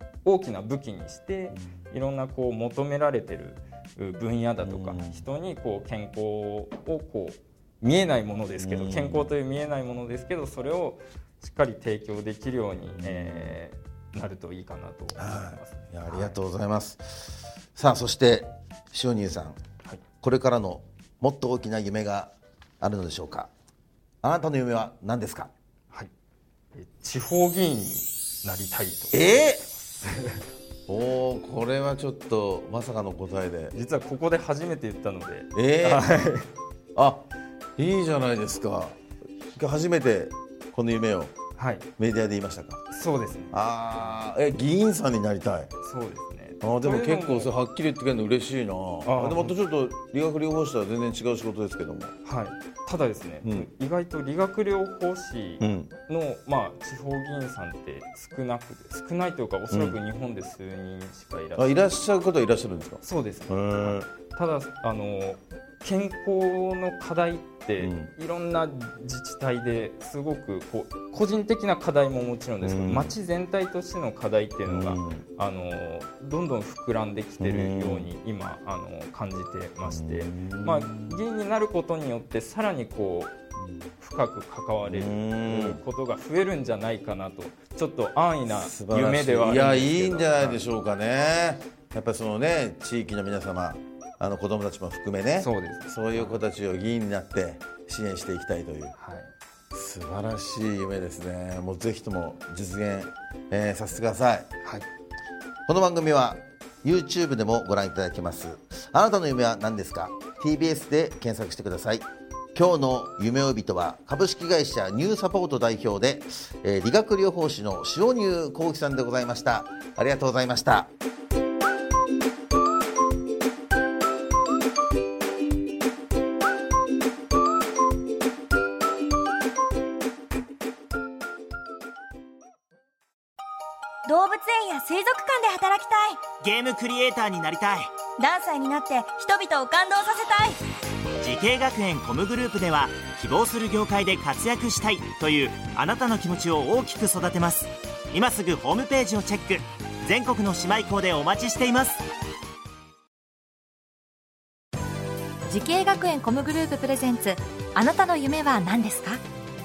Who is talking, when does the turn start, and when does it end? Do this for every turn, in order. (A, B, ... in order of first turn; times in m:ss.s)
0:00.2-0:16.4 A
0:04.6-0:05.2 B
0:08.6-0:09.3 B
0:12.9-0:13.6 B
0:15.1-0:19.6 B
0:20.2-0:23.5 B
0:24.2-0:25.5 B
0:26.7-0:30.4 A
0:29.1-0:29.6 B
0:30.9-0:33.7 B
0:33.7-0:36.5 A
0:35.5-0:36.1 B
0:37.0-0:37.2 B
0:37.8-0:39.0 B
0:39.5-0:41.3 B
0:41.6-0:41.9 A
0:42.0-0:42.8 B
0:42.9-0:43.6 A
0:43.5-0:45.7 B
0:45.8-0:47.5 A
0:46.6-0:52.1 B
0:49.0-0:49.5 A
0:52.2-1:01.8 A
0:53.4-0:53.7 B
0:55.6-0:55.9 B
0:59.7-1:00.0 B
1:01.6-1:04.1 B
1:03.0-1:23.3 A
1:07.8-1:08.1 B
1:12.6-1:13.1 B
1:14.6-1:15.2 B
1:17.4-1:18.1 B
1:19.8-1:21.2 B
1:24.0-1:30.6 A
1:24.8-1:25.8 B
1:28.5-1:38.9 B
1:35.4-1:36.4 A
1:39.0-1:39.3 A
1:39.7-1:44.5 B
1:45.7-2:00.9 B
2:14.0-2:16.3 C
2:16.4-2:17.9 D
2:18.2-2:20.6 C
2:21.2-2:32.0 D
2:35.5-2:39.2 E